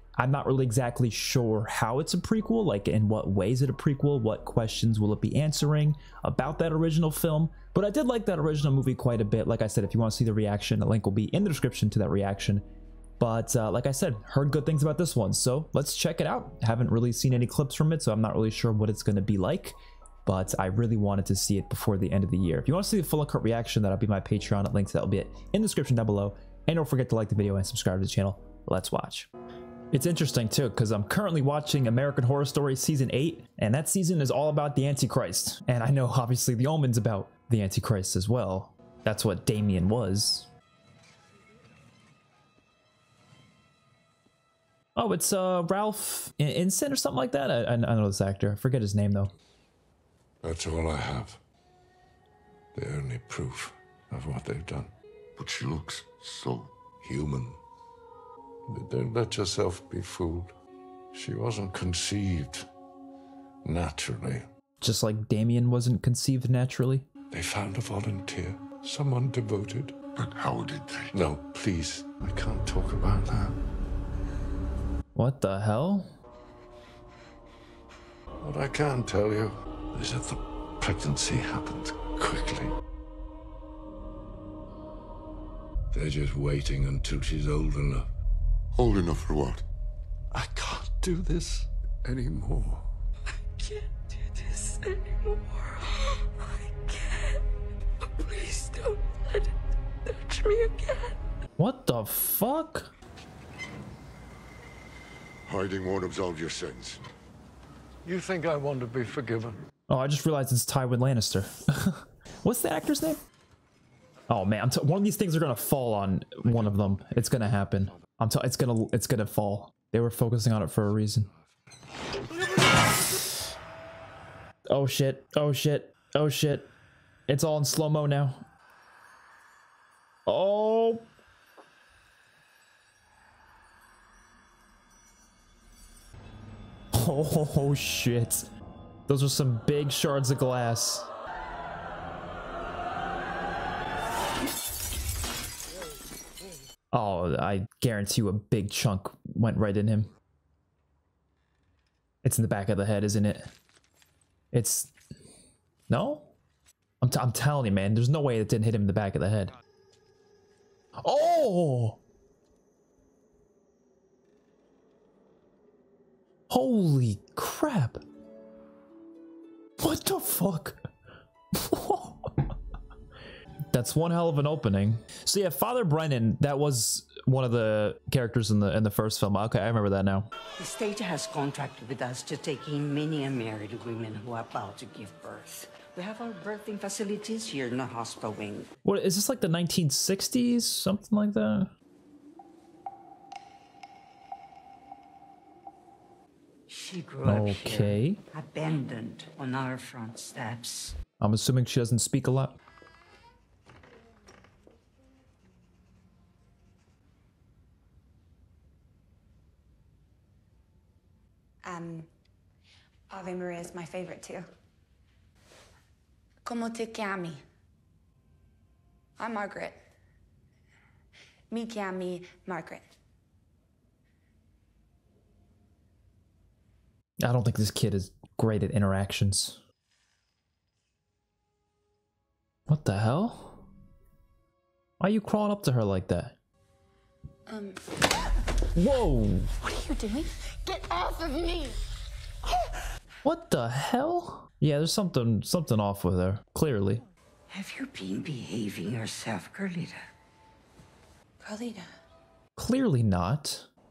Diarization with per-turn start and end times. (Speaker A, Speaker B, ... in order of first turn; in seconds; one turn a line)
Speaker A: 0.2-12.6
Speaker A: 13.2-29.3
Speaker A: 29.9-40.5
Speaker A: 45.0-49.3
Speaker B: 50.4-51.4
Speaker B: 52.7-54.9
Speaker C: 55.4-56.7
Speaker B: 57.0-57.6
Speaker B: 58.7-60.5
Speaker B: 61.1-62.7
Speaker B: 63.6-64.5
Speaker A: 64.8-67.0
Speaker B: 67.3-69.9
Speaker C: 70.2-71.1
Speaker B: 71.1-73.5
Speaker A: 75.1-76.1
Speaker B: 78.4-82.7
Speaker B: 85.9-88.1
Speaker C: 88.7-89.6
Speaker B: 90.3-92.8
Speaker D: 93.6-95.9
Speaker D: 96.8-97.4
Speaker D: 98.2-99.1
Speaker D: 100.1-101.1
Speaker A: 101.6-102.9
Speaker C: 105.5-107.0
Speaker B: 108.0-109.6
Speaker A: 109.9-113.2
Speaker A: 114.3-121.3
Speaker A: 124.7-126.7
Speaker A: 127.3-128.4
Speaker A: 130.2-131.1
Speaker A: 136.9-138.5
Speaker A: 139.1-141.1
Speaker A: 146.9-150.1
Speaker A: 152.2-153.5
Speaker A: 154.5-154.9
Speaker A: 155.9-156.3
Speaker A: 157.0-159.5
Speaker A: 161.0-162.0
Speaker A: 166.5-168.0
Speaker A: 169.8-170.8
Speaker A: 171.5-172.5
Speaker A: 173.7-180.3
Speaker E: 180.6-188.7
Speaker A: 188.8-191.7
Speaker E: 196.7-201.0
Speaker A: 197.2-198.2
Speaker A: 201.2-202.6
Speaker F: 211.6-212.1
Speaker F: 213.1-214.5
Speaker F: 216.4-217.4
Speaker F: 219.2-219.8
Speaker F: 221.5-222.8
Speaker A: 227.2-229.6
Speaker A: 232.7-233.7
Speaker A: 235.0-236.3
Speaker F: 237.5-237.8
Speaker A: 238.7-239.5
Speaker F: 239.6-241.8
Speaker A: 243.2-247.0
Speaker E: 247.5-250.0
Speaker F: 251.4-251.9
Speaker A: 252.6-253.7